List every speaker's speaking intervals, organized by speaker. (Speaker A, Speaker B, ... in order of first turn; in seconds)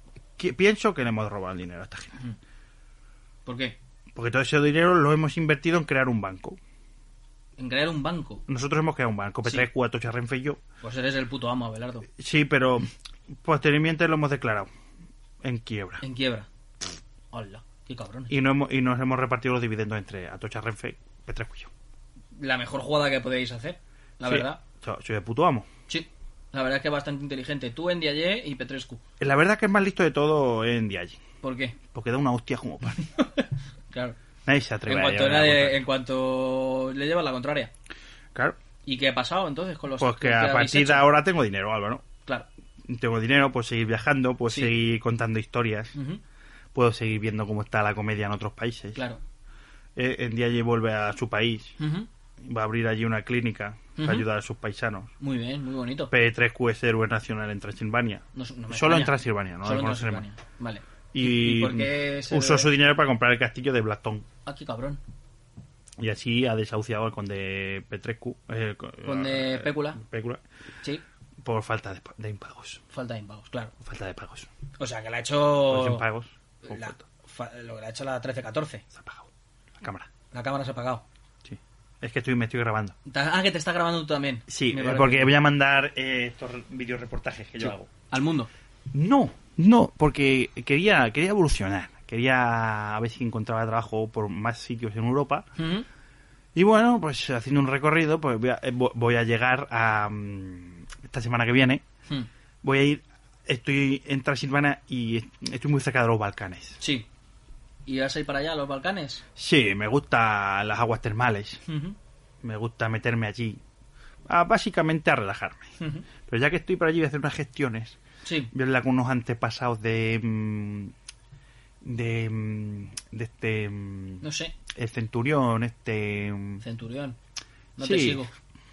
Speaker A: 0.4-2.2, 4.1-6.6, 8.5-10.6, 12.2-14.7, 15.4-16.0, 18.3-21.7, 24.2-25.7, 29.2-31.2, 31.9-33.1, 34.5-35.8, 40.0-42.0, 42.8-45.9, 46.7-49.0, 50.0-51.8, 52.4-55.1, 56.1-60.2, 61.1-64.2, 66.0-70.4, 71.4-72.8, 73.8-74.5, 75.7-77.0, 78.9-80.1, 81.4-83.0, 84.5-87.9, 88.9-95.5, 96.5-101.8, 102.6-106.8, 109.3-111.6, 112.4-113.6, 114.3-115.7, 116.2-118.0, 118.5-120.9, 121.8-126.6, 127.8-128.2
Speaker B: 3.5-3.8, 7.6-8.4, 10.8-12.1, 16.0-16.5, 17.3-18.3, 22.3-24.6, 25.9-29.0, 31.4-31.8, 33.0-34.2, 34.9-37.7, 38.8-41.1, 45.9-46.2, 51.8-52.1, 54.0-54.2, 55.2-56.1, 58.3-62.7, 64.4-65.0, 69.0-70.0, 72.9-73.7, 74.8-76.0, 76.6-78.8, 80.3-81.0, 83.0-85.3, 87.6-88.5, 95.6-95.9, 106.8-107.0, 107.8-109.2, 111.7-112.0, 115.8-116.1, 118.2-118.5, 124.2-124.5, 126.6-127.2, 127.8-128.3